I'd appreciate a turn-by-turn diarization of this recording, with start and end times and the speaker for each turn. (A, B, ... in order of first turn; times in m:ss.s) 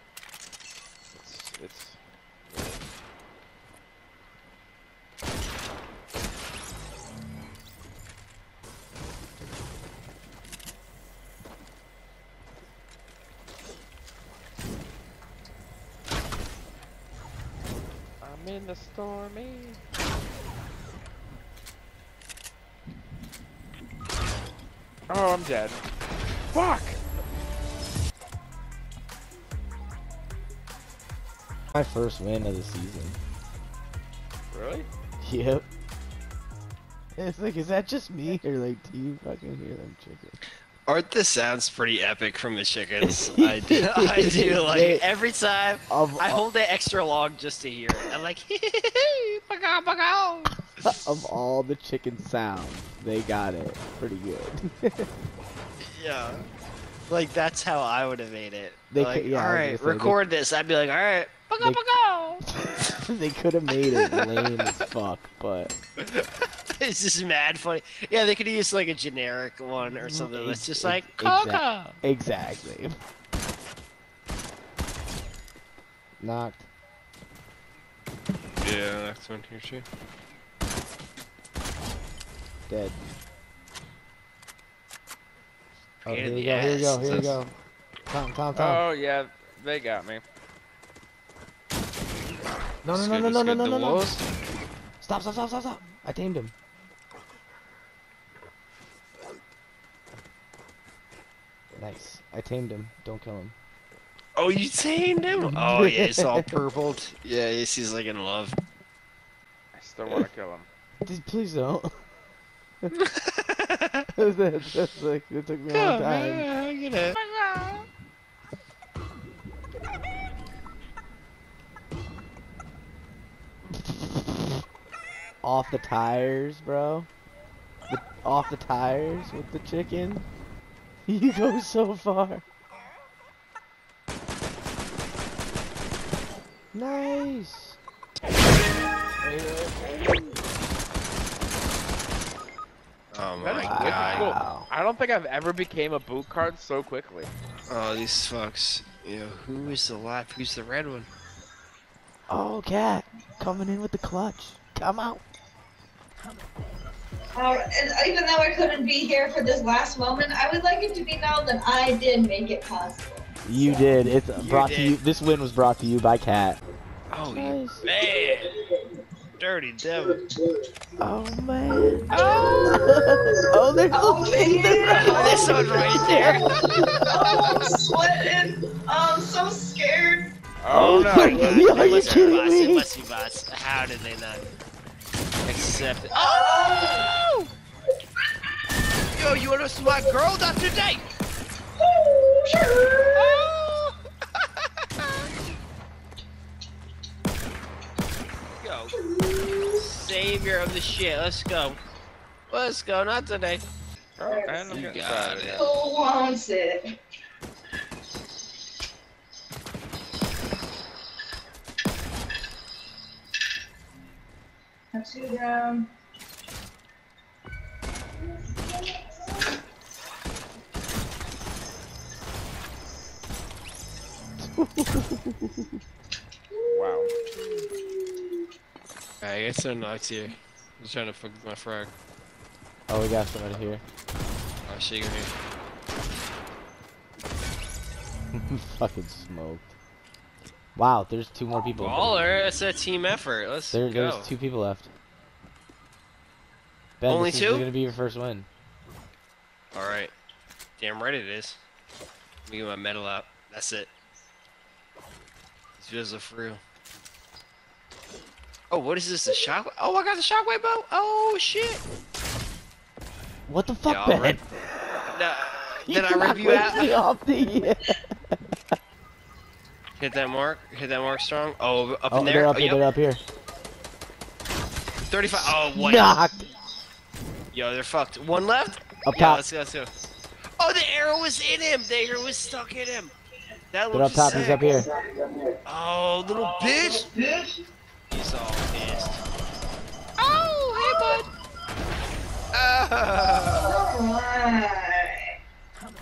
0:01.1-0:02.8 A
0:18.2-0:19.8 A
0:25.1-0:25.8 A
0:26.5-0:27.0 A
0:31.7-0:33.2 B
0:34.5-0:34.9 A
0:35.2-0:35.6 B
0:37.2-0:40.4 B
0:40.9-0:50.6 C
0:43.0-0:45.0 B
0:45.9-0:46.4 B
0:50.8-0:55.1 B
0:55.9-0:56.4 C
0:57.1-1:02.4 C
0:58.9-1:00.2 B
1:02.5-1:05.7 B
1:04.0-1:04.3 C
1:06.0-1:12.0 C
1:09.8-1:13.0 B
1:16.2-1:16.7 B
1:18.6-1:19.8 C
1:22.7-1:23.0 B
1:26.0-1:27.5 B
1:26.1-1:27.4 C
1:28.1-1:28.8 B
1:28.5-1:30.2 A
1:32.8-1:34.0 B
1:32.9-1:34.2 C
1:35.0-1:36.5 B
1:41.8-1:43.6 B
1:44.4-1:48.6 C
1:45.3-1:46.6 B
1:49.7-1:50.7 A
1:51.0-1:52.0 B
1:53.0-1:54.0 C
1:54.2-1:56.5 B
1:55.7-1:57.2 C
1:57.2-1:57.8 A
2:03.9-2:04.4 B
2:05.4-2:07.1 B
2:07.9-2:10.3 B
2:11.1-2:12.4 B
2:16.7-2:17.8 B
2:19.2-2:19.7 B
2:23.1-2:24.3 C
2:23.4-2:27.3 A
2:23.6-2:24.7 B
2:27.7-2:31.1 C
2:32.3-2:35.2 B
2:37.4-2:43.2 D
2:43.4-2:46.6 B
2:44.4-2:45.0 C
2:47.1-2:48.6 C
2:47.3-2:47.8 B
2:49.4-2:50.2 C
2:51.0-2:57.0 B
2:52.1-2:52.8 C
2:52.1-2:52.9 D
2:53.9-3:00.2 D
2:54.8-2:57.3 C
3:00.6-3:02.3 A
3:00.7-3:02.9 B
3:00.7-3:04.5 C
3:01.3-3:02.1 D
3:05.4-3:06.8 C
3:06.1-3:07.1 D
3:07.0-3:07.5 A
3:09.1-3:11.0 C
3:11.8-3:13.4 D
3:12.5-3:15.1 C
3:18.6-3:18.9 C
3:19.0-3:19.8 D
3:19.7-3:21.8 C
3:22.5-3:23.6 C
3:24.2-3:25.7 A
3:24.2-3:24.8 D
3:24.7-3:25.6 C
3:25.6-3:26.8 D
3:34.9-3:35.9 D
3:38.5-3:39.0 D
3:44.4-3:45.8 B
3:46.7-3:47.7 A
3:46.8-3:48.1 D
3:49.2-3:51.9 C
3:52.9-3:53.8 B
3:54.6-3:55.3 C
3:58.4-3:59.8 B
4:00.8-4:02.3 B
4:01.7-4:04.3 C
4:03.7-4:04.9 B
4:07.0-4:08.5 B
4:07.0-4:07.7 C
4:09.7-4:10.1 C
4:10.8-4:11.6 C
4:12.5-4:13.9 C
4:15.8-4:16.6 C
4:18.7-4:21.8 C
4:23.5-4:24.4 B
4:23.8-4:24.4 C
4:25.1-4:26.9 C
4:25.9-4:28.4 B
4:30.0-4:32.8 C
4:32.1-4:33.2 B
4:35.1-4:36.1 C
4:35.3-4:36.5 B
4:37.5-4:39.9 C
4:39.0-4:39.4 B
4:40.6-4:43.1 C
4:43.7-4:44.8 C
4:43.9-4:44.8 B
4:45.6-4:47.2 C
4:48.1-4:49.2 C
4:50.2-4:51.3 C
4:50.8-4:51.2 D
4:52.5-4:53.8 C
4:53.6-4:55.1 D